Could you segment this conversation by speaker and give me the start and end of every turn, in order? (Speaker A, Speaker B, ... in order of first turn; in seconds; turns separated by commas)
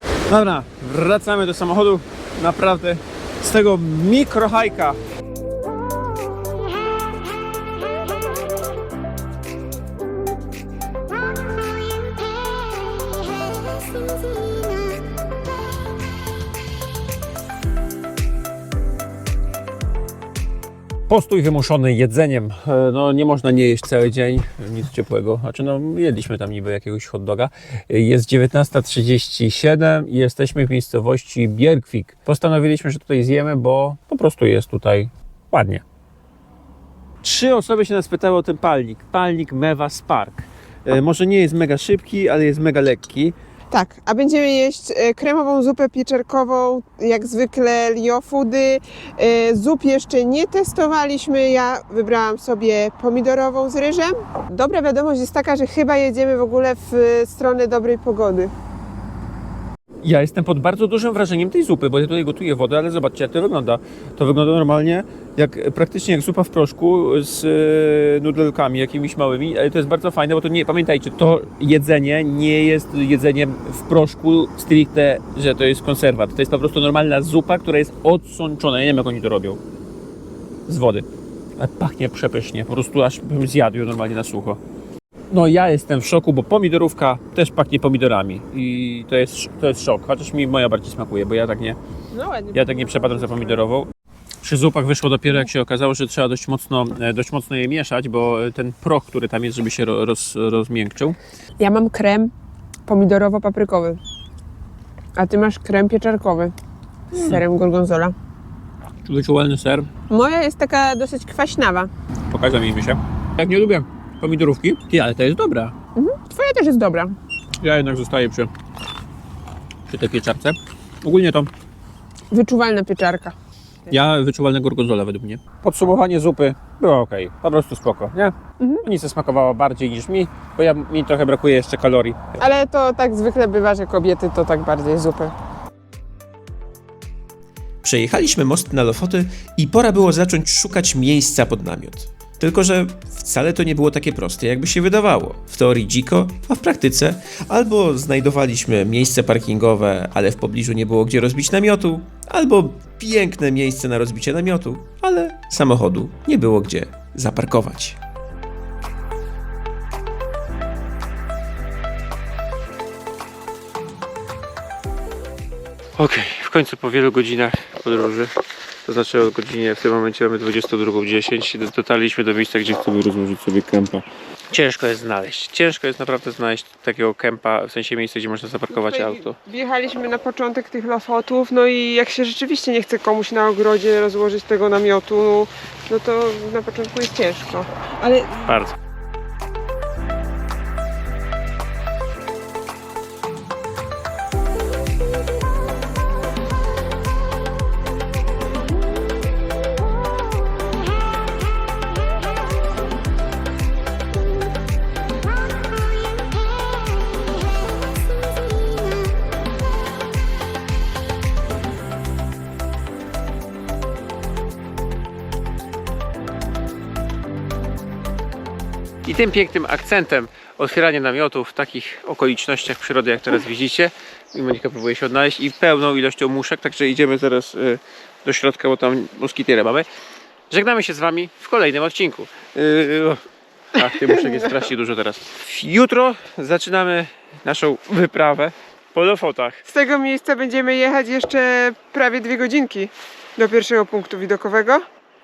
Speaker A: 0.3-5.0, Speaker A: 21.1-35.8, Speaker A: 37.2-43.3, Speaker B: 43.7-58.5, Speaker A: 60.0-79.6, Speaker A: 80.7-81.0, Speaker A: 81.6-84.6, Speaker A: 85.3-91.8, Speaker B: 92.1-93.7, Speaker A: 92.5-93.9, Speaker A: 94.4-101.2, Speaker B: 101.6-102.3, Speaker B: 102.9-104.0, Speaker B: 105.2-106.5, Speaker B: 107.1-108.1, Speaker A: 107.2-107.4, Speaker A: 109.0-109.9, Speaker B: 110.1-111.9, Speaker A: 112.3-115.7, Speaker B: 115.9-117.2, Speaker A: 117.6-118.5, Speaker A: 119.9-121.5, Speaker B: 122.3-123.3, Speaker A: 123.9-132.2, Speaker B: 132.4-135.3, Speaker C: 137.8-158.0, Speaker A: 166.0-168.3, Speaker A: 168.8-179.3, Speaker B: 178.7-188.5, Speaker A: 188.4-188.7, Speaker A: 219.0-229.8, Speaker A: 230.5-233.2, Speaker A: 233.7-239.6, Speaker B: 233.9-234.6, Speaker B: 239.6-244.8